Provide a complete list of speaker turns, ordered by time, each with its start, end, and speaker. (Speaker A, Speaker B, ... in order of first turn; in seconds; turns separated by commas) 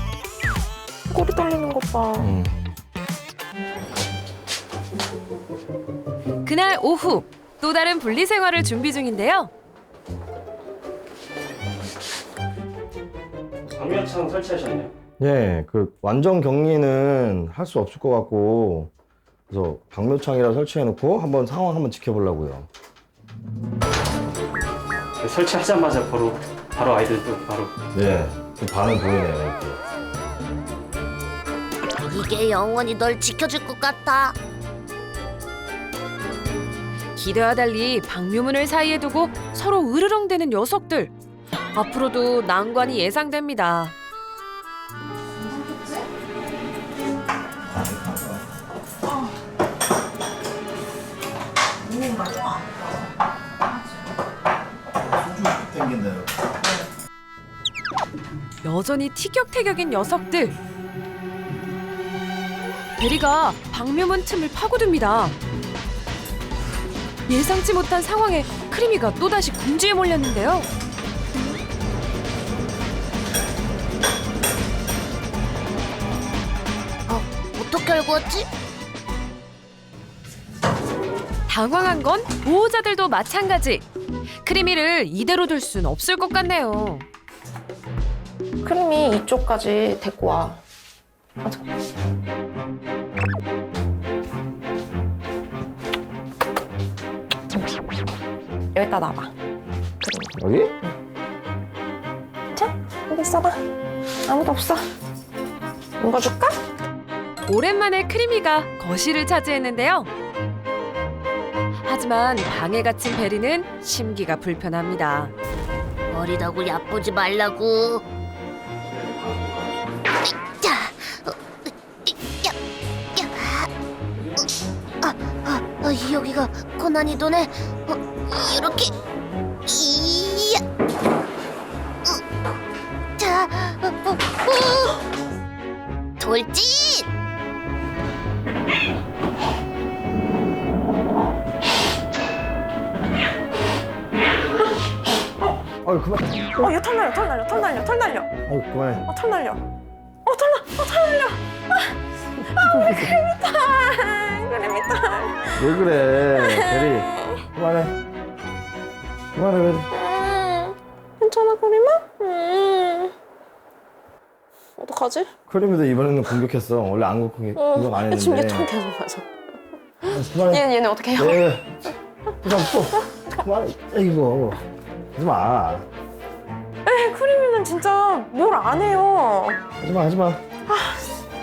Speaker A: 1.1-2.3, Speaker B: 2.2-2.5, Speaker C: 6.4-9.5, Speaker D: 13.7-14.9, Speaker B: 15.2-18.9, Speaker B: 19.5-22.7, Speaker D: 25.2-27.7, Speaker B: 27.9-29.8, Speaker E: 32.0-34.4, Speaker C: 37.2-41.1, Speaker C: 41.7-44.0, Speaker A: 45.5-46.0, Speaker B: 47.7-48.4, Speaker A: 51.9-52.9, Speaker B: 55.2-56.3, Speaker C: 58.6-60.6, Speaker C: 63.0-65.4, Speaker C: 67.3-70.7, Speaker E: 77.1-78.5, Speaker C: 81.5-83.9, Speaker C: 84.4-87.1, Speaker A: 88.6-90.6, Speaker A: 98.7-99.3, Speaker A: 100.0-101.0, Speaker B: 100.4-100.7, Speaker A: 102.5-103.6, Speaker A: 104.3-104.8, Speaker A: 106.0-106.6, Speaker C: 107.5-110.1, Speaker C: 111.8-115.3, Speaker E: 116.1-118.0, Speaker E: 120.4-121.4, Speaker E: 122.0-122.5, Speaker E: 123.2-123.7, Speaker E: 125.0-128.9, Speaker E: 129.7-130.6, Speaker E: 133.2-135.0, Speaker E: 136.2-137.1, Speaker B: 145.8-146.7, Speaker A: 146.6-148.3, Speaker B: 148.5-149.1, Speaker A: 149.1-149.6, Speaker A: 150.3-151.4, Speaker B: 152.5-153.2, Speaker A: 152.6-155.7, Speaker B: 155.6-157.9, Speaker A: 156.4-157.0, Speaker B: 159.3-159.9, Speaker A: 159.9-163.1, Speaker A: 164.8-165.3, Speaker B: 165.5-168.7, Speaker A: 167.6-169.3, Speaker A: 170.1-171.4, Speaker B: 170.1-170.6, Speaker B: 171.2-171.7, Speaker B: 172.4-174.6, Speaker B: 175.2-175.9, Speaker A: 176.9-179.6, Speaker B: 179.8-180.4, Speaker A: 180.7-181.1